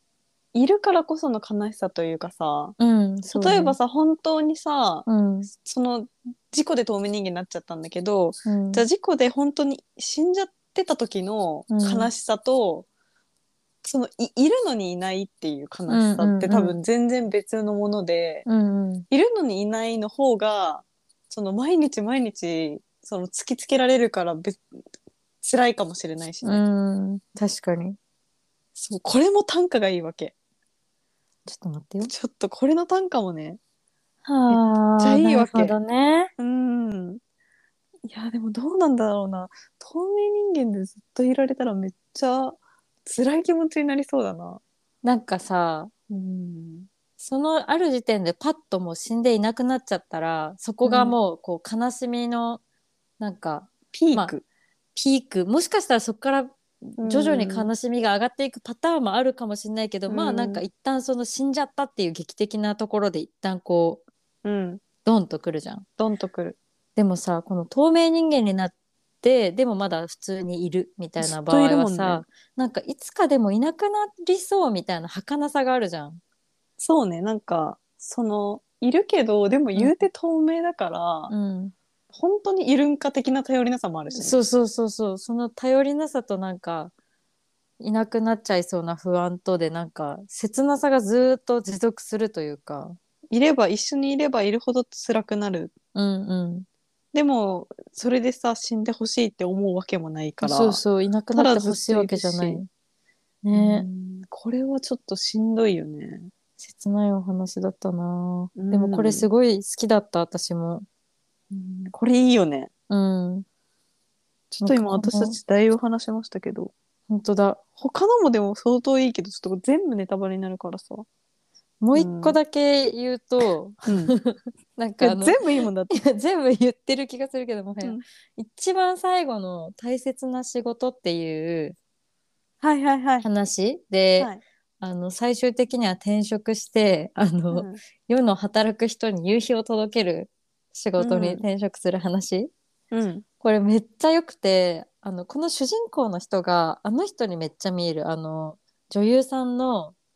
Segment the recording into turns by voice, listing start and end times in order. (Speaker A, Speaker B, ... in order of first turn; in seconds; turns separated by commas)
Speaker A: 0.5-2.8, Speaker B: 2.8-3.8, Speaker A: 3.3-12.8, Speaker B: 5.1-5.5, Speaker B: 8.4-8.8, Speaker B: 11.7-12.1, Speaker A: 13.8-18.4, Speaker B: 15.9-16.7, Speaker B: 18.4-19.1, Speaker A: 19.1-24.6, Speaker A: 25.4-26.6, Speaker B: 26.4-28.0, Speaker A: 28.7-30.3, Speaker B: 31.4-32.1, Speaker A: 32.0-33.6, Speaker B: 34.2-36.3, Speaker A: 34.5-35.8, Speaker A: 36.4-37.2, Speaker A: 38.1-44.6, Speaker B: 45.0-45.9, Speaker A: 46.1-46.9, Speaker B: 47.2-52.6, Speaker A: 50.8-51.2, Speaker B: 53.2-54.3, Speaker A: 53.9-54.4, Speaker B: 54.9-64.0, Speaker A: 57.0-57.7, Speaker A: 60.1-60.6, Speaker A: 64.4-64.8, Speaker B: 65.0-65.8, Speaker A: 66.0-66.6, Speaker B: 67.0-76.2, Speaker A: 71.2-72.2, Speaker A: 76.8-81.3, Speaker B: 79.8-80.0, Speaker B: 81.3-81.7, Speaker A: 82.1-84.5, Speaker B: 84.1-86.9, Speaker B: 87.8-93.0, Speaker A: 93.3-95.7, Speaker B: 95.9-96.7, Speaker A: 97.1-100.8, Speaker B: 100.4-102.7, Speaker A: 101.3-102.6, Speaker B: 103.4-103.9, Speaker A: 103.5-106.3, Speaker B: 106.6-110.8, Speaker A: 108.5-109.3, Speaker A: 111.5-112.7, Speaker B: 112.9-113.4, Speaker A: 114.5-116.7, Speaker B: 114.6-115.3, Speaker B: 117.1-117.6, Speaker A: 117.8-121.0, Speaker B: 121.8-125.4, Speaker A: 121.9-122.4, Speaker A: 123.8-124.1, Speaker A: 125.0-126.0, Speaker B: 125.9-131.8, Speaker A: 132.6-133.3, Speaker B: 133.2-142.5, Speaker A: 137.5-137.8, Speaker A: 141.0-141.4, Speaker A: 142.9-143.2, Speaker B: 143.4-149.9